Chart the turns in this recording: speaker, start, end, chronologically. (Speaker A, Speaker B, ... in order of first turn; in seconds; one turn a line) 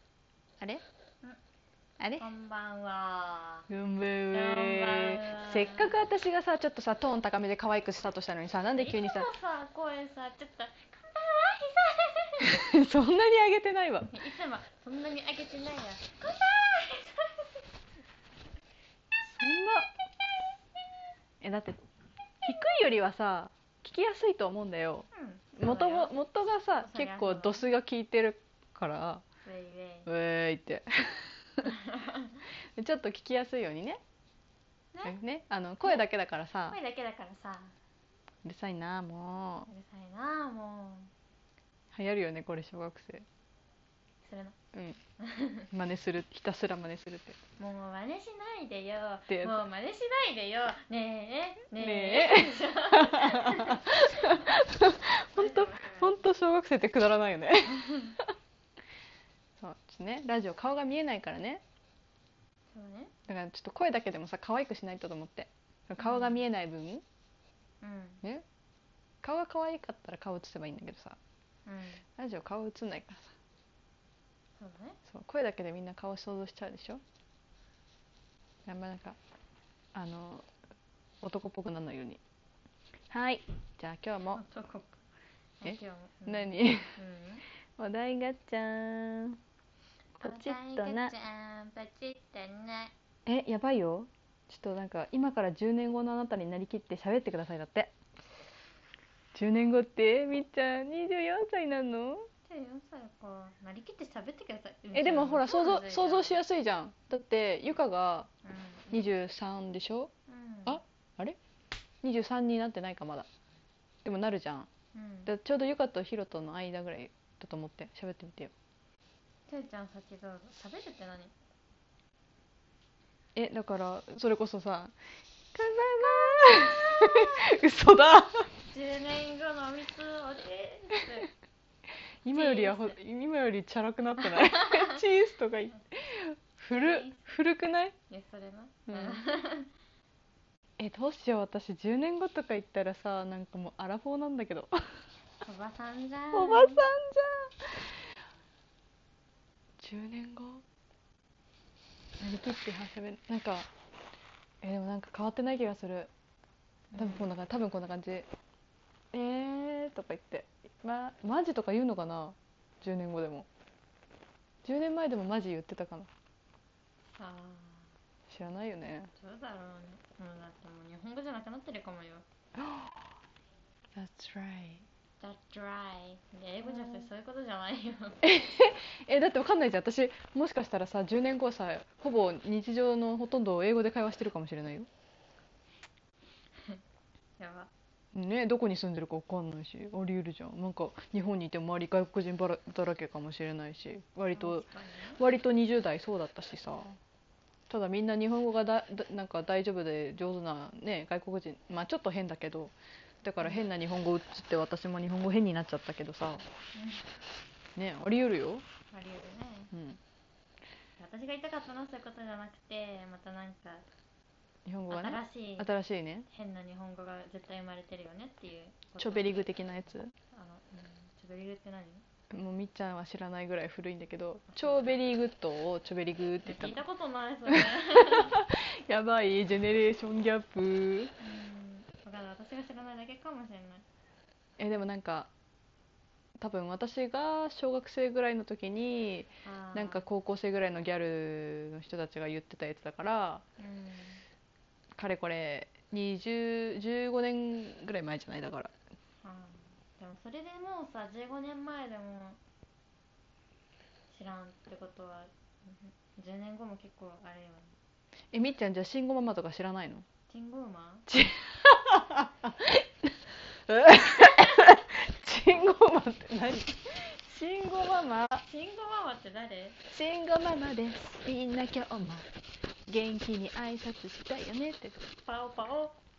Speaker A: 2.0-2.3
Speaker B: 2.2-3.7
Speaker A: 3.7-9.3
Speaker B: 4.3-6.0
Speaker B: 8.8-12.7
Speaker A: 12.4-14.1
Speaker B: 14.1-17.8
Speaker A: 19.3-19.9
Speaker A: 21.4-21.8
Speaker A: 22.4-29.2
Speaker B: 25.1-26.1
Speaker B: 26.8-27.7
Speaker B: 29.4-30.1
Speaker A: 30.1-31.7
Speaker B: 31.6-32.4
Speaker A: 32.8-34.0
Speaker B: 34.9-35.2
Speaker A: 35.0-36.8
Speaker B: 36.7-37.8
Speaker A: 38.4-39.7
Speaker B: 39.7-41.1
Speaker A: 41.9-43.3
Speaker B: 44.2-44.5
Speaker A: 44.7-45.0
Speaker B: 45.2-45.7
Speaker A: 45.7-47.4
Speaker B: 47.6-54.3
Speaker A: 49.3-49.6
Speaker A: 51.8-58.1
Speaker B: 55.3-56.2
Speaker B: 57.8-58.2
Speaker A: 59.6-61.6
Speaker B: 62.7-63.1
Speaker A: 63.3-67.0
Speaker B: 66.0-66.4
Speaker B: 67.8-68.2
Speaker A: 69.2-71.2
Speaker B: 71.7-72.0
Speaker A: 72.2-73.3
Speaker B: 74.6-75.0
Speaker A: 75.1-77.0
Speaker A: 78.7-79.2
Speaker A: 79.9-80.5
Speaker A: 81.2-82.2
Speaker A: 83.1-84.4
Speaker B: 84.3-85.0
Speaker B: 85.6-87.4
Speaker A: 85.6-87.0
Speaker A: 87.8-89.4
Speaker A: 90.2-91.1
Speaker B: 90.2-92.9
Speaker A: 93.3-97.9
Speaker A: 99.3-102.3
Speaker B: 102.5-106.4
Speaker A: 104.9-108.3
Speaker B: 108.4-109.0
Speaker A: 108.9-110.1
Speaker B: 110.3-110.8
Speaker A: 110.7-111.4
Speaker A: 112.0-113.3
Speaker A: 114.0-114.7
Speaker B: 114.9-115.3
Speaker A: 115.2-118.5
Speaker B: 119.5-121.3
Speaker A: 123.4-125.0
Speaker A: 125.5-128.5
Speaker B: 128.7-131.3
Speaker A: 132.2-137.9
Speaker B: 132.3-133.0
Speaker B: 134.2-135.0
Speaker B: 136.7-137.3
Speaker B: 138.1-139.7
Speaker A: 138.9-139.2
Speaker A: 140.8-144.8
Speaker B: 145.4-146.8
Speaker A: 146.3-147.9
Speaker A: 149.8-150.6
Speaker A: 152.2-153.7
Speaker A: 154.6-156.1
Speaker B: 156.9-157.3
Speaker A: 157.0-158.3
Speaker A: 159.1-163.5
Speaker A: 164.6-166.1
Speaker B: 167.1-167.9
Speaker A: 168.3-169.1
Speaker B: 169.2-172.2
Speaker A: 172.6-172.9
Speaker A: 174.0-174.8
Speaker B: 175.2-178.2
Speaker A: 176.6-177.1
Speaker A: 178.2-184.9
Speaker B: 187.4-187.7
Speaker A: 188.1-197.0
Speaker B: 194.3-195.2
Speaker A: 197.7-206.4
Speaker B: 206.7-207.1
Speaker A: 207.8-208.6
Speaker B: 208.9-209.7
Speaker A: 209.7-210.0
Speaker B: 211.0-213.8
Speaker A: 214.7-216.3
Speaker B: 214.9-215.7
Speaker B: 216.3-219.5
Speaker A: 219.0-220.1
Speaker B: 220.3-222.0
Speaker A: 222.3-226.8
Speaker B: 224.5-225.0
Speaker B: 226.5-228.4
Speaker A: 227.5-231.1
Speaker B: 231.2-233.8
Speaker A: 234.6-235.3
Speaker A: 236.4-243.4
Speaker B: 239.4-240.1
Speaker B: 243.6-244.2
Speaker A: 245.0-248.7
Speaker B: 249.2-252.4
Speaker B: 254.1-257.7
Speaker A: 258.3-260.1
Speaker B: 260.3-261.1
Speaker A: 261.1-263.1
Speaker A: 263.7-268.4
Speaker B: 268.4-269.8
Speaker A: 269.9-272.3
Speaker A: 272.9-275.0
Speaker B: 275.2-276.0